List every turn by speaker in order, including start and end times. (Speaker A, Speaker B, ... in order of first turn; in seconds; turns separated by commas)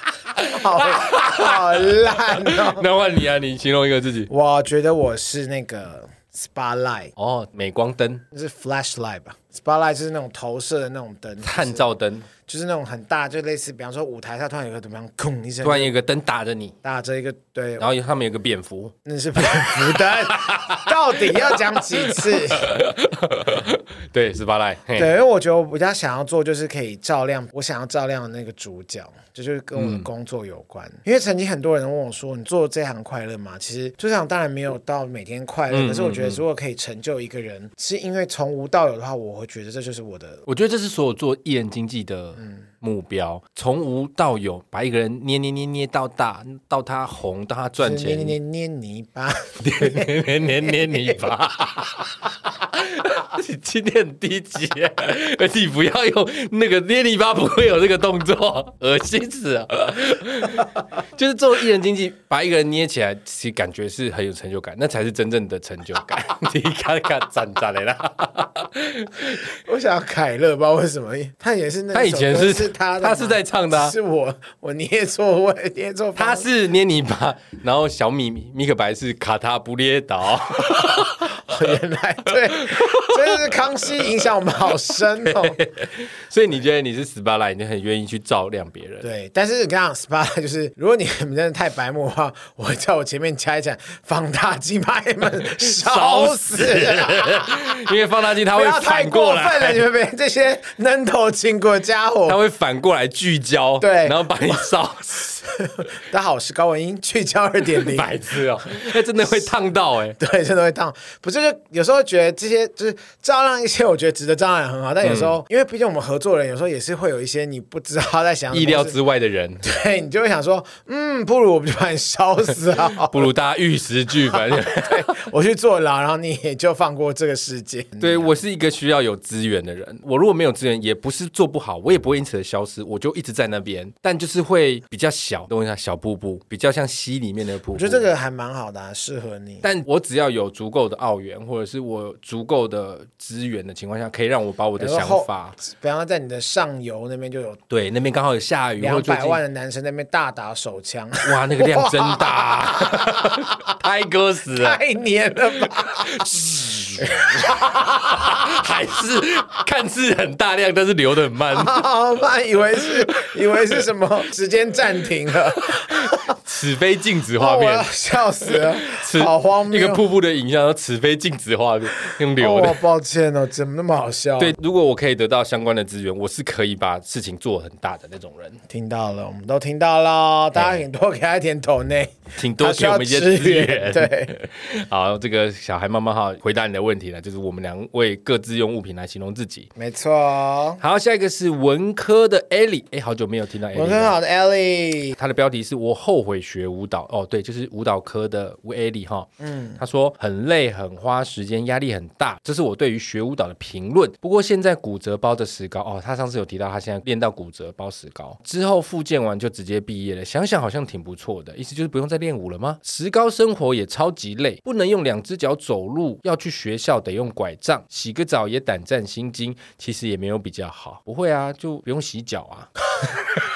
Speaker A: 0.2-4.3, Speaker B: 0.4-2.9, Speaker B: 4.3-7.1, Speaker A: 7.2-8.2, Speaker B: 8.3-11.9, Speaker A: 11.4-12.3, Speaker B: 12.5-15.9, Speaker A: 15.6-16.8, Speaker B: 16.8-17.9, Speaker A: 17.8-25.1, Speaker B: 19.0-22.7, Speaker B: 24.9-40.4, Speaker A: 29.8-30.1, Speaker A: 35.7-36.4, Speaker A: 40.5-48.4, Speaker B: 47.8-51.3, Speaker A: 49.6-69.5, Speaker B: 69.5-76.5, Speaker A: 71.9-73.9, Speaker A: 76.1-81.7, Speaker B: 80.6-85.6, Speaker A: 82.3-84.3, Speaker A: 84.9-89.1, Speaker B: 89.0-97.9, Speaker A: 95.3-99.8, Speaker B: 98.5-102.4, Speaker A: 102.2-105.5, Speaker B: 103.8-104.2, Speaker B: 105.6-109.5, Speaker A: 107.6-110.2, Speaker B: 110.2-119.0, Speaker A: 115.0-115.4, Speaker A: 118.5-119.6, Speaker B: 119.6-123.3, Speaker A: 122.8-125.2, Speaker B: 124.2-128.3, Speaker A: 128.0-138.1, Speaker B: 137.7-139.6, Speaker A: 139.6-145.6, Speaker B: 144.8-147.6, Speaker A: 147.7-149.4, Speaker B: 148.8-153.6, Speaker A: 151.2-154.8, Speaker B: 154.6-156.3, Speaker A: 155.8-161.8, Speaker B: 157.0-158.3, Speaker B: 161.5-166.3, Speaker A: 165.6-167.9, Speaker B: 167.4-170.0, Speaker A: 168.4-172.8, Speaker B: 172.3-174.6, Speaker A: 174.4-178.6, Speaker B: 178.7-184.3, Speaker A: 180.5-180.8, Speaker A: 182.4-189.7, Speaker B: 189.8-190.8, Speaker A: 190.8-194.2, Speaker B: 193.7-195.2, Speaker A: 195.2-222.7, Speaker B: 199.4-199.8